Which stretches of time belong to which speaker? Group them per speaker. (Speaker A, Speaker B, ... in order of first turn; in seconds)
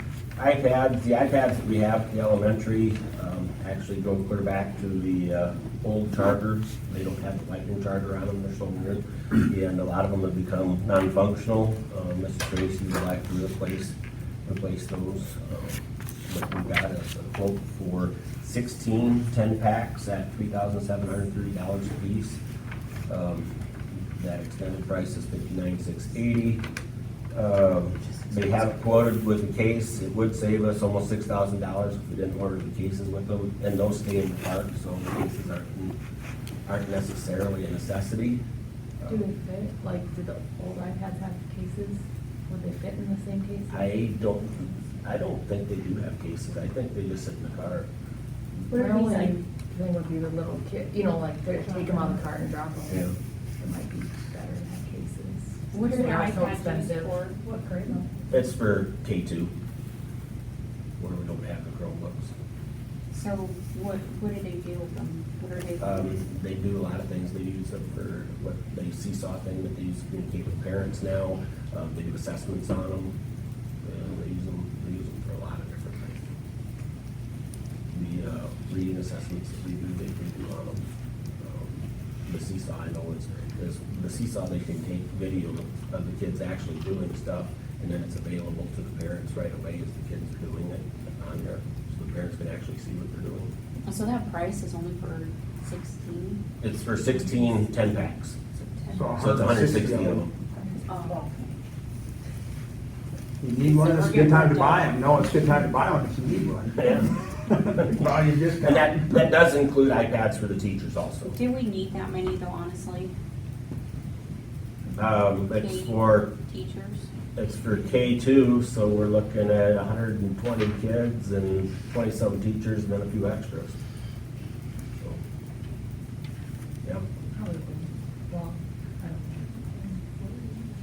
Speaker A: 0.4-22.4, 23.1-26.6, 27.3-36.0, 36.6-38.4, 43.7-47.9, 52.9-53.1, 58.3-59.5, 61.0-62.3, 65.8-73.1, 73.8-76.3, 77.9-80.8, 81.4-93.5, 96.6-98.4, 99.2-100.3, 106.8-107.1, 107.8-108.0, 108.6-111.4, 114.9-116.3, 117.3-123.7
Speaker B: 39.1-43.9, 48.7-58.2, 100.6-100.9, 127.3-130.3
Speaker C: 48.7-49.4, 55.7-57.4, 63.1-66.2, 93.8-96.4, 98.5-99.1, 100.9-101.3, 103.6-105.0, 111.3-113.1, 115.5-117.1
Speaker D: 98.9-100.3, 103.4-109.1